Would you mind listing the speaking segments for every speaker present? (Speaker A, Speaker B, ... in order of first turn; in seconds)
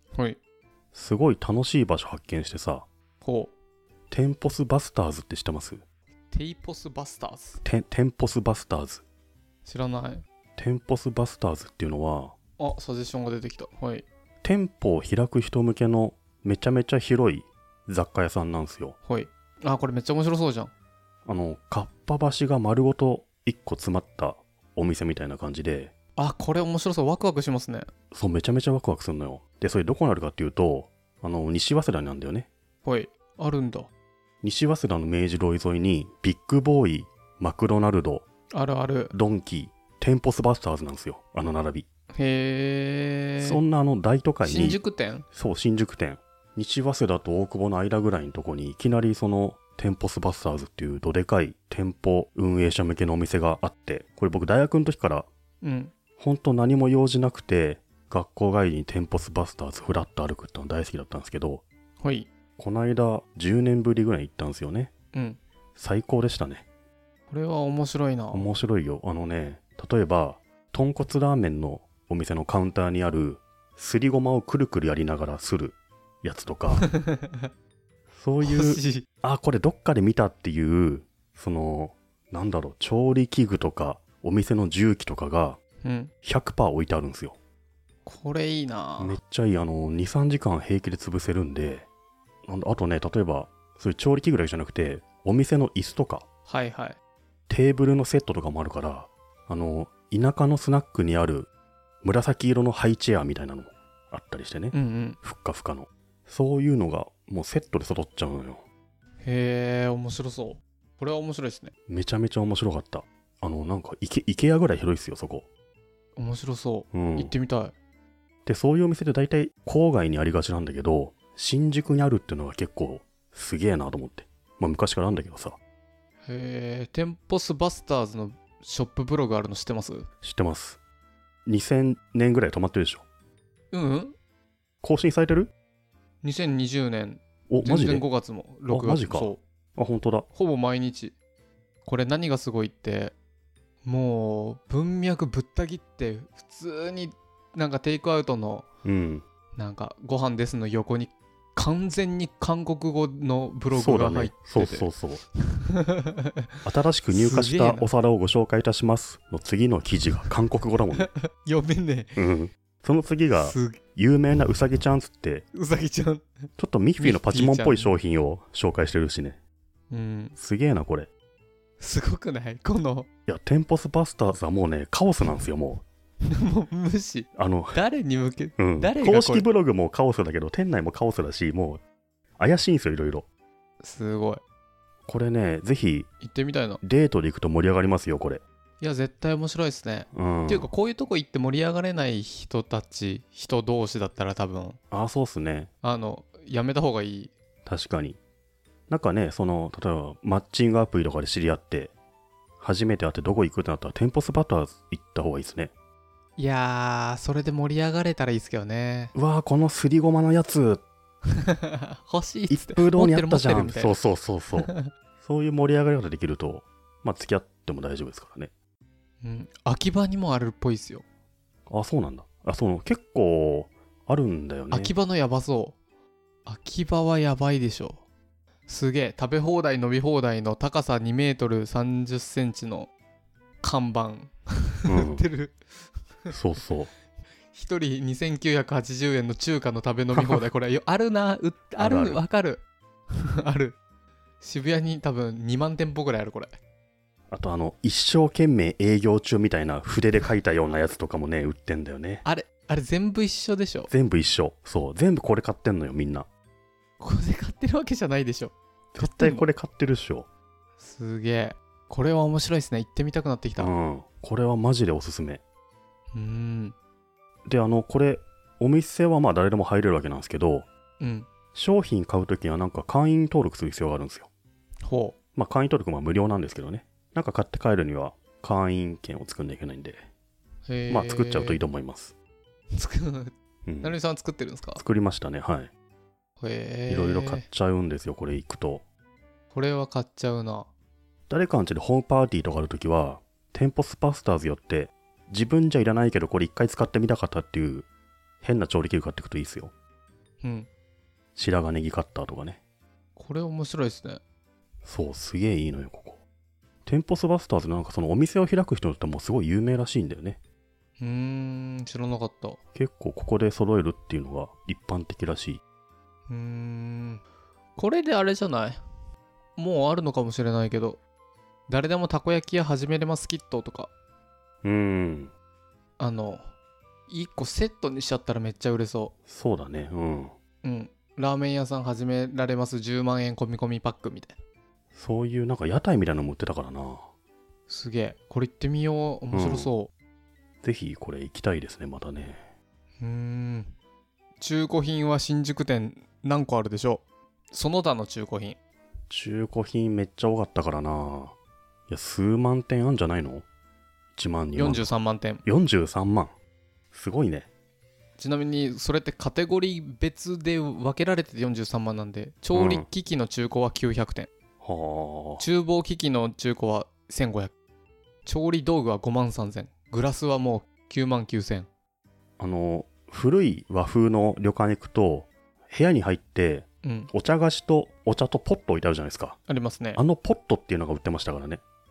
Speaker A: 0.1-0.4, 3.2-3.5, 6.3-7.6, 9.6-10.2, 12.6-14.0, 19.1-20.7, 26.1-27.9, 32.8-33.9, 38.5-39.1, 42.1-43.6, 44.4-45.2, 55.6-55.9, 62.0-62.3, 65.1-65.4, 67.3-68.5, 76.7-77.4, 78.4-79.0, 85.8-86.1, 88.0-89.2, 96.5-97.0, 104.7-105.2, 109.2-111.7, 116.2-117.7, 126.2-130.1, 133.7-134.2, 136.2-139.4, 140.3-141.2, 141.8-143.1, 143.8-148.7, 149.6-156.5, 157.1-157.9, 161.0-162.2, 163.3-163.8, 165.5-166.3, 167.0-167.9, 169.9-170.3, 171.8-173.1, 176.2-179.4, 183.8-184.4, 186.2-186.8, 188.8-194.8, 195.8-197.3, 206.4-209.1, 211.3-214.0, 214.6-214.9, 219.2-221.0, 224.7-225.8, 226.4-228.0, 228.7-232.9, 233.6-235.6, 237.5-242.6, 243.2-243.8, 244.4-246.5, 252.2-253.9, 257.0-259.5, 260.8-263.7, 266.1-266.8, 271.0-271.3, 274.8-275.1, 280.7-281.6, 282.7-284.8, 286.4-287.4, 289.5-290.7, 300.4-300.7, 303.1-304.2, 311.0-312.6, 316.3-317.2, 317.8-318.8, 319.6-321.0, 321.7-323.9, 326.0-326.4, 327.1-329.1, 330.6-334.4, 337.7-339.9, 343.0-343.7, 344.4-348.6, 354.5-355.4, 358.2-364.3, 365.4-367.5, 368.2-371.7, 376.8-377.1, 379.5-380.0
Speaker B: 0.9-2.9, 4.1-5.8, 7.6-9.0, 10.6-12.3, 14.4-18.9, 21.2-25.9, 28.1-32.5, 34.4-38.2, 39.1-41.9, 43.4-44.8, 45.3-55.3, 56.2-61.6, 62.6-64.9, 65.8-66.7, 68.3-76.9, 78.1-85.6, 86.2-87.4, 89.0-91.9, 92.5-96.2, 97.5-101.5, 102.0-108.6, 111.9-115.5, 116.9-117.3, 118.5-125.6, 130.2-130.8, 131.5-133.0, 134.8-135.5, 137.5-138.1, 138.7-140.3, 148.8-149.2, 153.7-155.2, 156.6-161.1, 162.2-165.4, 166.6-169.4, 170.3-171.1, 173.3-175.8, 177.3-177.8, 178.6-181.8, 182.4-183.3, 185.1-186.1, 186.8-188.4, 190.1-190.7, 194.9-195.7, 197.7-198.2, 198.9-201.9, 202.6-205.7, 209.1-210.8, 212.5-218.5, 221.7-224.9, 234.9-235.2, 236.3-236.9, 240.1-240.4, 241.8-242.2, 247.3-252.2, 253.9-256.3, 258.9-260.3, 263.6-265.4, 267.4-270.7, 271.5-274.3, 275.3-280.0, 280.9-282.1, 283.6-284.0, 284.8-285.7, 286.9-288.8, 291.3-297.9, 298.4-299.7, 301.4-302.6, 304.8-306.2, 306.9-310.4, 312.7-315.6, 324.6-325.3, 329.3-330.3, 334.9-337.1, 339.3-339.7, 340.6-342.4, 349.1-351.3, 351.9-353.4, 354.1-354.9, 355.4-356.3, 356.9-357.5, 362.5-362.9, 364.6-365.4, 372.4-379.4, 379.9-381.6